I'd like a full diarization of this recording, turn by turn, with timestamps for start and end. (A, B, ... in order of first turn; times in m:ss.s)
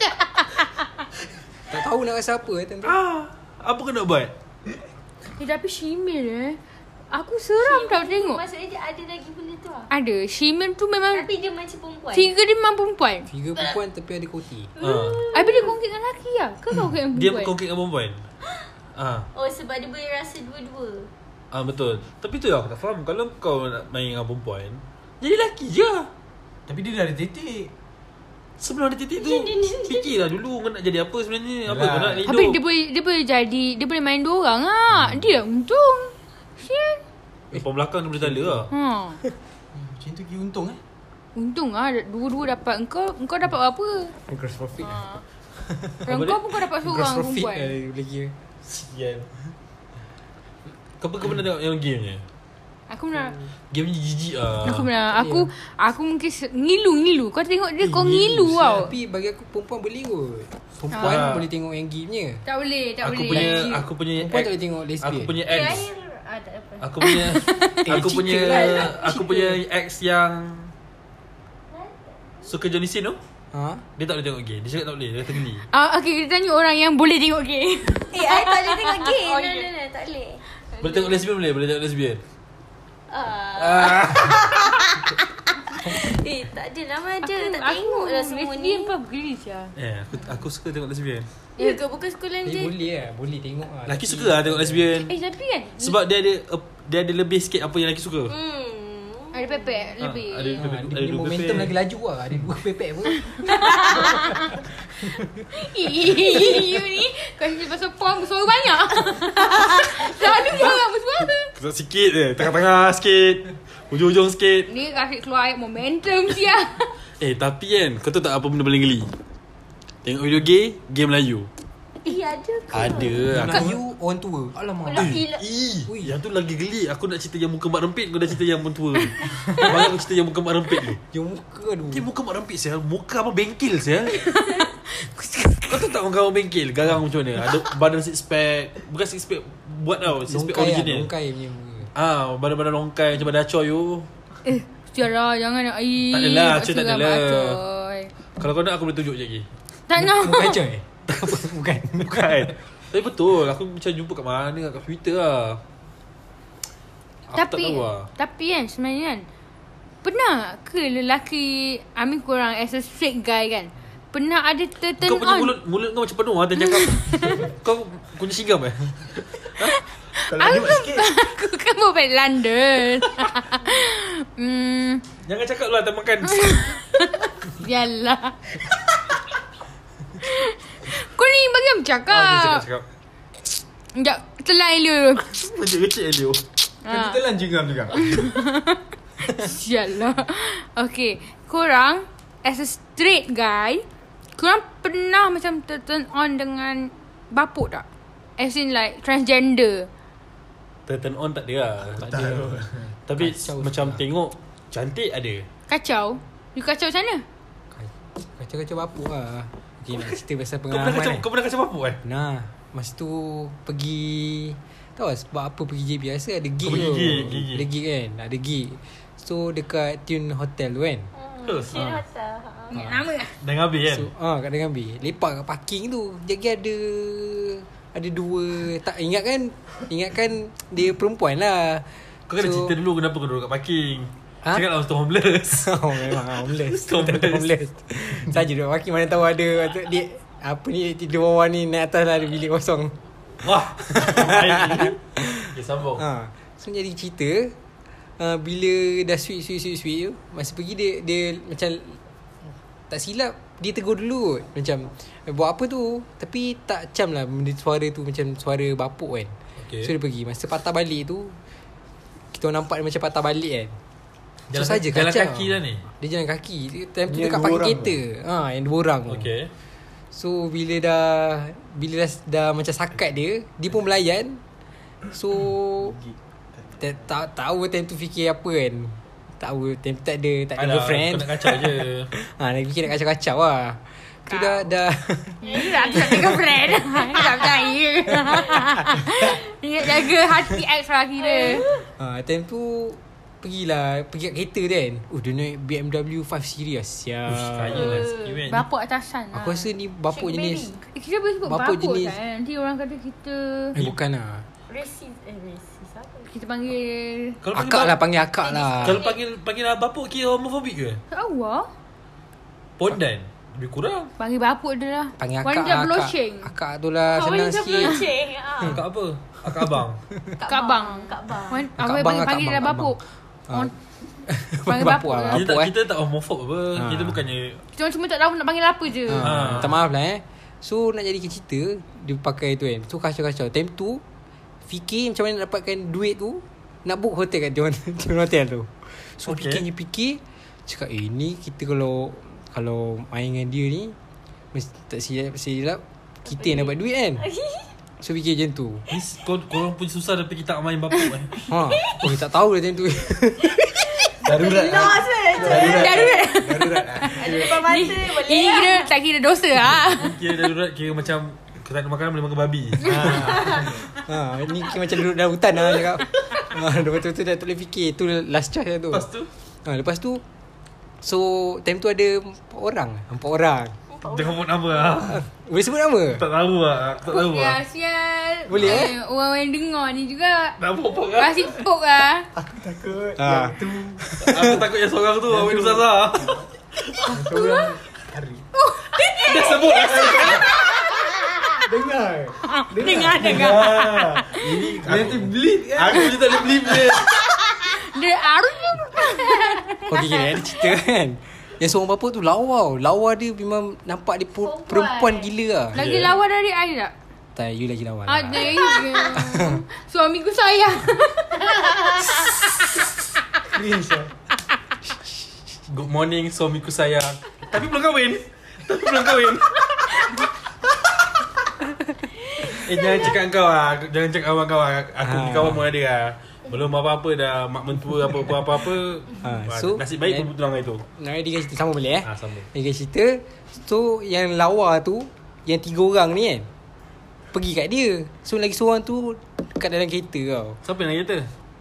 0:01.7-0:03.0 A
0:02.8-0:04.3 B
0:05.4-0:06.6 C
0:07.1-0:08.4 C
0:07.6-0:09.9 D
0:09.9-0:11.3 C
0:11.1-0:12.3 D
0:12.1-0:13.3 C
0:13.3-0:14.7 A
0:14.8-0:15.8 D
0:14.8-0:15.2 B
0:15.3-0:17.5 C
0:17.1-0:18.2 B
0:19.0-0:19.3 B
0:19.3-0:21.1 D
0:21.5-0:26.1 B
0:26.7-0:27.7 E
0:28.6-0:32.6 B
0:29.2-0:30.2 D
0:31.7-0:32.3 E
0:32.3-0:37.0 C
0:37.5-0:38.7 B
0:38.2-0:38.7 A
0:38.7-0:39.2 C
0:39.8-0:40.8 E
0:41.4-0:44.2 C
0:44.3-0:44.9 A
0:44.8-0:45.2 C
0:45.7-0:46.0 A
0:46.1-0:47.7 C
0:46.1-0:46.4 B
0:46.7-0:48.4 A
0:48.6-0:49.3 B
0:51.0-0:52.2 B
0:52.9-0:53.4 C
0:53.7-0:54.9 B
0:54.6-0:58.9 C
0:55.1-0:55.5 A
0:57.8-1:02.4 A
1:00.9-1:01.3 C
1:01.0-1:01.5 B
1:02.4-1:03.7 C
1:03.0-1:05.9 B
1:03.3-1:05.4 A
1:05.5-1:07.2 D
1:06.8-1:10.7 B
1:07.0-1:07.8 C
1:07.8-1:09.6 A
1:08.4-1:09.0 D
1:11.7-1:12.5 D
1:12.5-1:13.2 B
1:13.5-1:13.8 A
1:14.0-1:15.7 B
1:15.7-1:19.7 C
1:18.1-1:20.4 D
1:20.7-1:21.2 C
1:20.8-1:22.2 B
1:23.1-1:28.9 D
1:23.9-1:24.2 A
1:27.2-1:29.7 C
1:29.8-1:31.3 B
1:31.6-1:32.7 D
1:32.4-1:34.9 A
1:33.8-1:35.1 B
1:35.1-1:36.0 C
1:35.8-1:38.4 B
1:38.3-1:39.7 D
1:39.3-1:40.6 C
1:40.0-1:41.8 B
1:40.6-1:43.4 A
1:43.5-1:44.3 C
1:45.5-1:51.5 C
1:46.1-1:46.8 D
1:49.3-1:50.5 D
1:51.6-1:54.7 B
1:54.7-1:56.9 C
1:57.2-1:59.1 B
2:00.0-2:01.5 B
2:02.0-2:03.3 D
2:02.7-2:03.8 B
2:03.3-2:05.2 A
2:04.9-2:05.4 D
2:05.0-2:11.0 B
2:05.9-2:06.2 A
2:11.1-2:12.1 A
2:11.9-2:14.2 B
2:14.1-2:15.9 C
2:15.7-2:21.1 B
2:20.1-2:21.9 A
2:22.0-2:24.1 B
2:24.4-2:28.1 C
2:26.1-2:27.6 B
2:28.4-2:29.5 B
2:29.9-2:30.6 C
2:30.0-2:32.5 A
2:32.0-2:35.6 B
2:37.3-2:38.1 B
2:37.3-2:39.3 C
2:40.0-2:45.6 C
2:45.0-2:49.8 B
2:46.8-2:47.5 C
2:49.6-2:55.0 C
2:50.3-2:51.1 E
2:55.3-2:56.6 B
2:56.2-2:58.6 C
3:00.2-3:02.7 C
3:02.1-3:02.8 B
3:03.9-3:05.4 C
3:05.3-3:06.4 B
3:06.8-3:07.2 C
3:06.9-3:08.2 E
3:08.0-3:13.8 C
3:14.4-3:17.8 C
3:18.4-3:19.9 C
3:20.9-3:22.6 B
3:22.0-3:22.8 E
3:22.0-3:22.6 A
3:23.1-3:25.5 B
3:23.2-3:24.0 A
3:25.7-3:27.2 C
3:27.7-3:31.3 A
3:30.7-3:32.0 B
3:32.0-3:41.1 A
3:36.6-3:37.7 B
3:41.1-3:42.8 D
3:41.4-3:42.0 B
3:42.7-3:43.3 C
3:43.4-3:44.1 B
3:43.9-3:52.8 A
3:52.3-3:57.6 B
3:55.5-4:07.6 A
4:03.4-4:06.0 B
4:08.2-4:21.4 A
4:19.6-4:19.9 B
4:22.3-4:23.8 A
4:24.5-4:25.8 B
4:24.5-4:29.3 A
4:27.1-4:28.0 E
4:29.1-4:29.5 B
4:30.1-4:34.4 A
4:35.1-4:36.0 A
4:35.8-4:36.9 E
4:36.8-4:46.3 A
4:40.6-4:42.1 B
4:44.3-4:44.7 C
4:45.4-4:51.7 C
4:45.4-4:46.4 D
4:47.1-4:47.4 D
4:51.2-4:51.9 D
4:52.0-4:58.0 A
4:57.3-4:58.6 B
4:57.8-4:58.4 D
4:58.5-4:59.7 C
4:59.3-5:00.7 A
5:00.1-5:00.8 D
5:00.9-5:03.8 C
5:01.4-5:02.2 A
5:03.8-5:04.4 A
5:04.7-5:06.3 D
5:06.3-5:07.4 C
5:07.4-5:08.0 B
5:07.5-5:09.0 A
5:08.4-5:09.2 D
5:08.8-5:11.0 B
5:11.1-5:11.7 C
5:12.8-5:14.1 B
5:14.2-5:16.5 C
5:15.2-5:18.0 A
5:17.1-5:18.8 D
5:18.6-5:20.0 B
5:20.4-5:21.7 D
5:20.5-5:23.0 C
5:21.8-5:23.7 A
5:24.3-5:25.7 A
5:24.6-5:25.4 C
5:25.3-5:27.6 B
5:26.8-5:27.2 A
5:27.8-5:29.6 C
5:29.1-5:34.0 A
5:29.2-5:29.8 B
5:34.7-5:44.0 A
5:39.2-5:39.6 B
5:44.5-5:47.3 A
5:46.3-5:47.7 D
5:48.0-5:48.9 A
5:48.9-5:51.5 B
5:51.5-5:54.1 A
5:51.7-5:52.1 D
5:54.0-5:56.3 D
5:54.2-5:57.6 E
5:55.3-6:00.2 C
5:57.0-5:58.9 D
5:59.8-6:03.7 B
6:02.8-6:03.8 E
6:03.1-6:03.7 D
6:03.3-6:09.1 A
6:08.9-6:09.3 B
6:09.6-6:10.2 A
6:11.0-6:13.8 A
6:13.9-6:15.0 D
6:14.0-6:15.2 B
6:15.1-6:16.2 A
6:16.1-6:17.6 B
6:17.0-6:20.6 C
6:18.5-6:19.0 A
6:20.6-6:21.5 B
6:21.1-6:22.3 C
6:22.4-6:24.6 E
6:23.2-6:24.6 A
6:24.2-6:27.2 B
6:25.3-6:26.4 E
6:27.1-6:28.4 E
6:27.2-6:27.7 C
6:28.6-6:31.0 C
6:29.2-6:31.6 D
6:29.2-6:30.5 B
6:29.8-6:30.5 E
6:31.6-6:37.2 E
6:32.4-6:34.5 C
6:33.2-6:37.2 B
6:37.7-6:39.9 C
6:39.9-6:45.8 A
6:44.4-6:45.3 D
6:45.7-6:46.9 C
6:45.8-6:46.2 B
6:47.4-6:48.5 A
6:48.1-6:51.9 C
6:48.6-6:49.1 D
6:49.1-6:49.6 A
6:53.5-6:54.1 E
6:55.7-6:59.9 B
7:02.5-7:10.8 B
7:05.0-7:05.7 A
7:09.2-7:10.3 A
7:10.9-7:16.5 A
7:12.0-7:12.5 B
7:17.3-7:20.6 A
7:20.6-7:21.3 B